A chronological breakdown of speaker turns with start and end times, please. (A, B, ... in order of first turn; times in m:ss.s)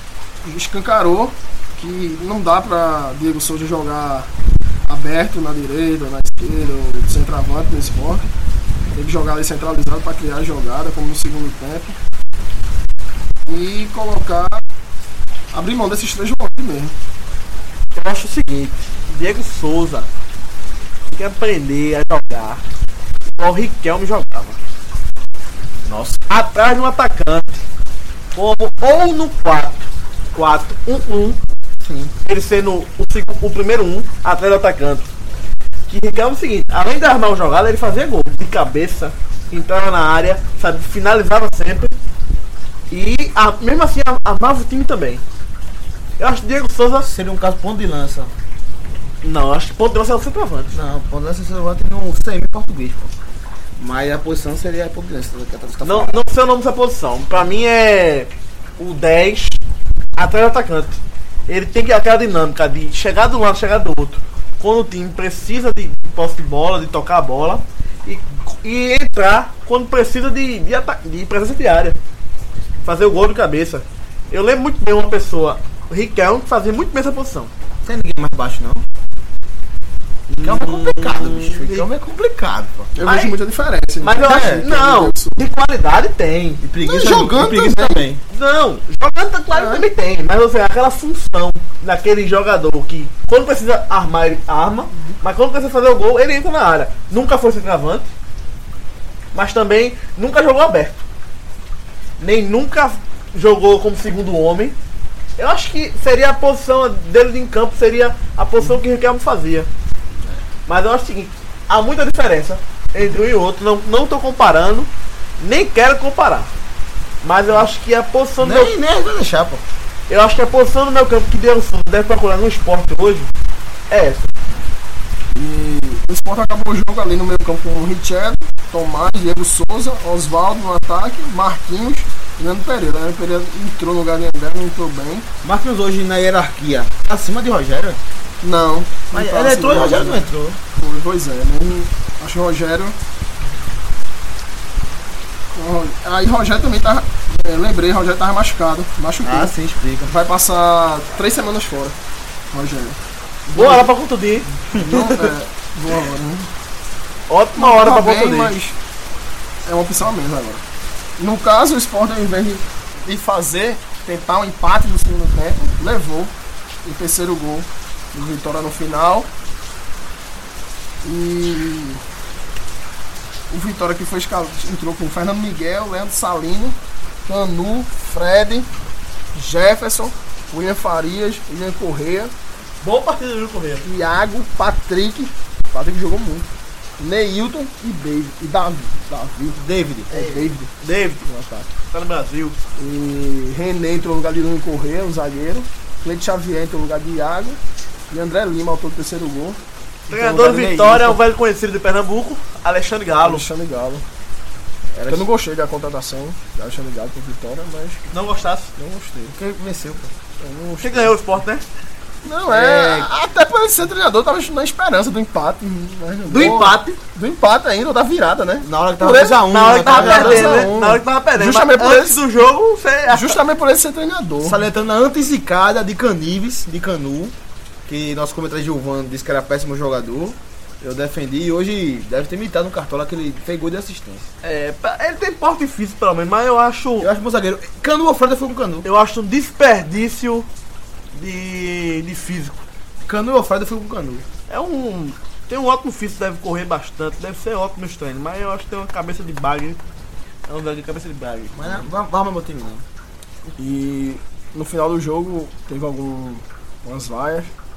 0:00.4-0:04.3 A
0:04.9-0:08.3 A
0:08.9-0:12.0 A
0:13.4-0:14.6 A
0:15.5-0:16.9 A
0:17.9-0:20.1 B
0:21.1-0:22.6 B
0:23.4-0:24.6 B
0:25.8-0:26.2 C
0:26.3-0:27.6 B
0:28.3-0:31.4 B
0:31.8-0:32.1 C
0:32.2-0:35.1 B
0:35.9-0:42.0 B
0:42.9-0:45.2 B
0:46.2-0:47.1 B
0:47.0-0:48.3 C
0:49.2-0:50.7 B
0:50.7-0:53.1 C
0:53.8-0:56.2 C
0:55.8-0:59.6 B
1:00.2-1:12.0 B
1:12.8-1:17.5 B
1:17.8-1:18.8 C
1:20.3-1:21.9 B
1:20.4-1:22.9 C
1:22.9-1:25.4 A
1:23.0-1:23.3 B
1:24.0-1:26.6 B
1:24.2-1:24.6 C
1:26.6-1:28.2 C
1:26.8-1:28.0 A
1:28.3-1:38.1 B
1:29.5-1:29.8 A
1:39.3-1:41.0 B
1:42.2-1:44.8 B
1:45.4-1:49.7 B
1:50.7-1:56.5 B
1:57.2-1:58.7 B
1:58.4-1:59.6 C
2:00.1-2:03.3 B
2:03.9-2:04.3 B
2:05.3-2:15.3 A
2:15.4-2:18.0 C
2:18.4-2:23.0 A
2:19.1-2:20.6 C
2:25.5-2:29.5 A
2:29.2-2:30.1 C
2:30.0-2:32.0 A
2:32.5-2:33.0 A
2:33.5-2:35.2 B
2:33.5-2:33.9 A
2:34.7-2:36.5 A
2:37.3-2:38.5 B
2:37.6-2:38.8 A
2:39.6-2:40.6 A
2:41.2-2:46.3 A
2:46.8-2:49.3 A
2:51.0-2:52.0 A
2:53.5-2:58.7 A
2:59.3-3:02.3 A
3:02.8-3:03.9 B
3:03.8-3:06.5 A
3:07.0-3:11.7 A
3:09.6-3:10.1 C
3:10.8-3:11.2 B
3:11.9-3:12.6 B
3:12.8-3:17.6 A
3:18.1-3:19.6 A
3:20.1-3:21.2 C
3:20.1-3:23.5 B
3:23.2-3:24.0 A
3:24.9-3:25.3 C
3:25.1-3:28.1 A
3:28.1-3:28.7 B
3:28.8-3:29.4 A
3:29.3-3:30.1 C
3:30.4-3:31.2 A
3:30.8-3:31.6 B
3:32.2-3:42.2 A
3:32.5-3:33.1 C
3:36.3-3:37.0 B
3:38.6-3:40.7 C
3:39.5-3:43.4 B
3:43.1-3:44.6 A
3:44.4-3:47.3 C
3:47.9-3:54.3 C
3:54.4-3:57.1 B
3:57.0-3:58.9 C
3:58.8-4:00.5 B
4:01.1-4:02.6 B
4:03.0-4:04.2 C
4:04.5-4:09.8 B
4:10.5-4:11.8 B
4:11.5-4:12.8 C
4:13.6-4:17.5 A